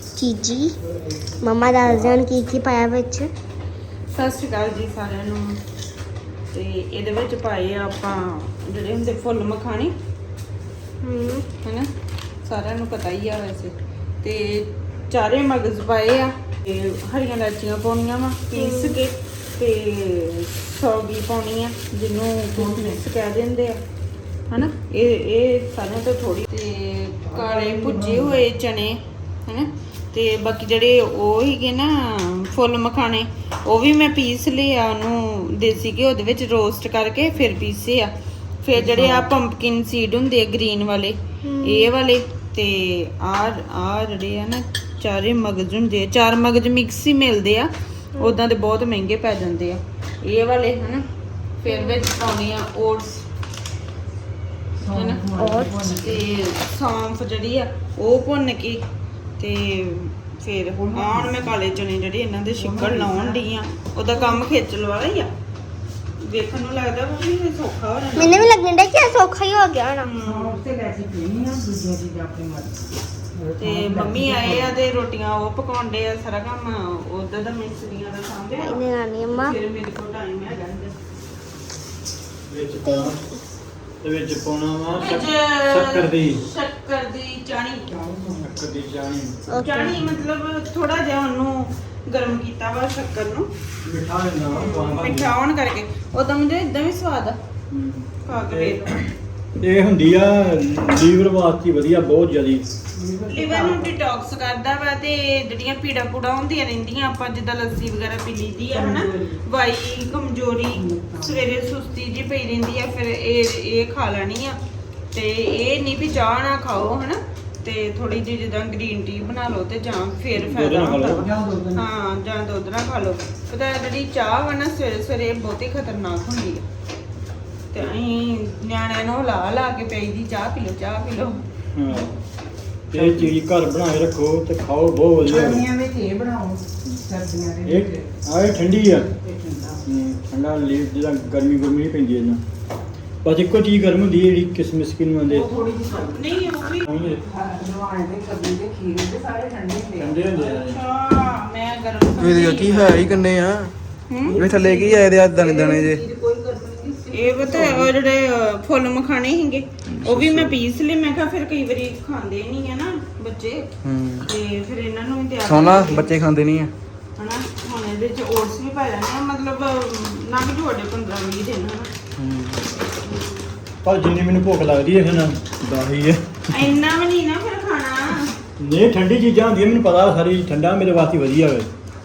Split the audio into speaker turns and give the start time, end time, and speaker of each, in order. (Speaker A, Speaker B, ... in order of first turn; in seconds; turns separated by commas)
Speaker A: 0.2-0.7, Speaker B: 1.1-2.2, Speaker A: 1.4-3.3, Speaker C: 4.1-5.6, Speaker C: 6.5-9.9, Speaker A: 11.0-11.4, Speaker C: 11.6-11.9, Speaker C: 12.4-23.8, Speaker A: 18.6-19.0, Speaker B: 22.6-23.0, Speaker C: 24.5-38.1, Speaker B: 27.2-28.4, Speaker C: 38.6-51.0, Speaker B: 38.8-39.3, Speaker A: 41.4-41.9, Speaker C: 51.6-53.2, Speaker A: 51.7-52.0, Speaker B: 54.8-56.2, Speaker C: 54.9-55.2, Speaker A: 55.4-55.8, Speaker C: 55.9-58.8, Speaker C: 59.4-65.3, Speaker B: 60.8-61.6, Speaker B: 62.6-63.4, Speaker C: 66.2-68.5, Speaker A: 68.2-70.1, Speaker C: 70.0-70.5, Speaker B: 70.2-74.7, Speaker C: 73.6-80.9, Speaker A: 78.6-79.5, Speaker D: 82.5-83.2, Speaker A: 82.8-83.2, Speaker D: 84.0-86.4, Speaker C: 85.0-87.9, Speaker B: 87.9-88.5, Speaker D: 88.4-89.4, Speaker A: 89.5-90.0, Speaker C: 89.5-93.5, Speaker D: 93.8-95.3, Speaker C: 94.5-97.4, Speaker D: 97.7-102.7, Speaker C: 98.2-99.0, Speaker B: 102.9-103.9, Speaker C: 103.3-114.6, Speaker B: 108.7-109.4, Speaker B: 110.7-111.4, Speaker C: 115.1-126.7, Speaker D: 120.3-121.3, Speaker B: 121.1-121.8, Speaker C: 127.7-131.4, Speaker D: 131.8-132.2, Speaker D: 132.9-135.7, Speaker B: 135.2-138.1, Speaker D: 137.7-139.1, Speaker B: 139.1-139.8, Speaker D: 139.8-142.4, Speaker D: 143.2-145.5, Speaker B: 145.3-146.3, Speaker C: 145.9-146.9, Speaker D: 146.8-147.2, Speaker B: 147.2-150.2, Speaker D: 150.0-150.8, Speaker C: 150.3-153.2, Speaker E: 152.2-153.7, Speaker C: 154.1-154.4, Speaker B: 154.3-157.9, Speaker E: 154.3-156.0, Speaker C: 157.1-163.7, Speaker E: 159.9-160.6, Speaker E: 163.8-164.3, Speaker C: 164.2-166.2, Speaker E: 165.4-166.7, Speaker C: 167.2-171.9, Speaker E: 172.2-172.7, Speaker C: 173.0-173.5, Speaker D: 173.8-176.7, Speaker C: 176.5-178.4, Speaker D: 178.6-181.7